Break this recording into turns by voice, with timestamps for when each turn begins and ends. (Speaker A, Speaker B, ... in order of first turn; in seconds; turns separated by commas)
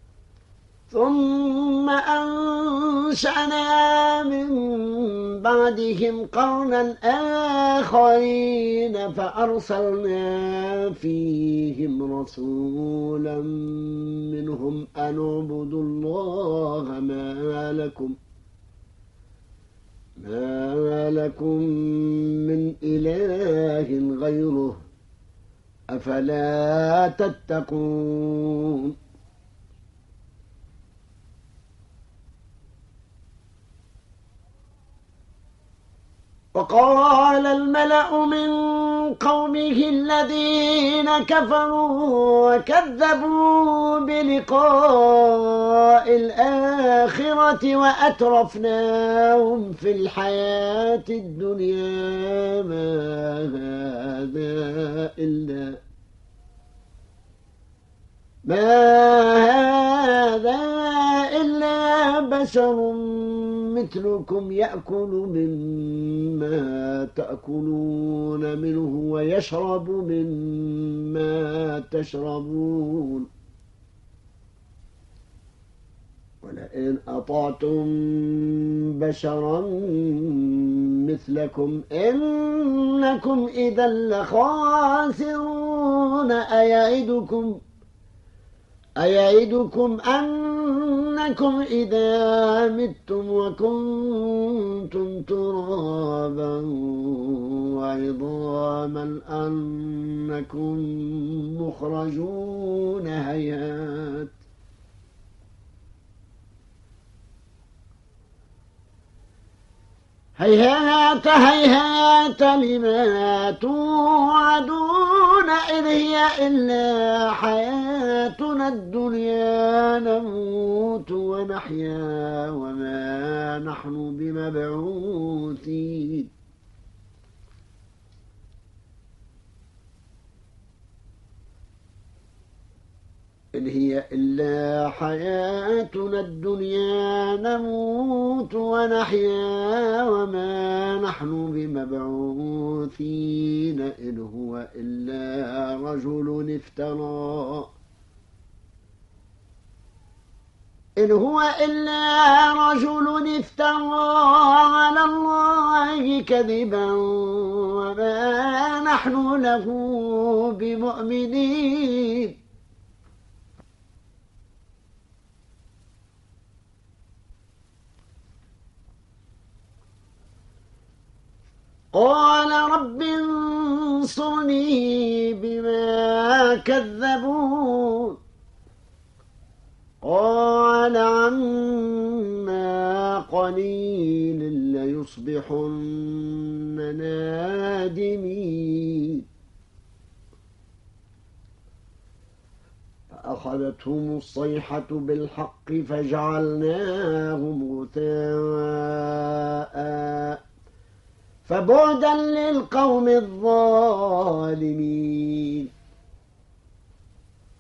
Speaker A: 0.9-18.2, Speaker A: 20.2-24.8, Speaker A: 25.9-28.9, Speaker A: 36.5-55.8, Speaker A: 58.5-73.3, Speaker A: 76.4-87.6, Speaker A: 89.0-104.3, Speaker A: 110.4-126.3, Speaker A: 133.6-147.7, Speaker A: 151.0-162.3, Speaker A: 171.9-178.2, Speaker A: 180.0-189.2, Speaker A: 193.1-200.4, Speaker A: 201.5-205.7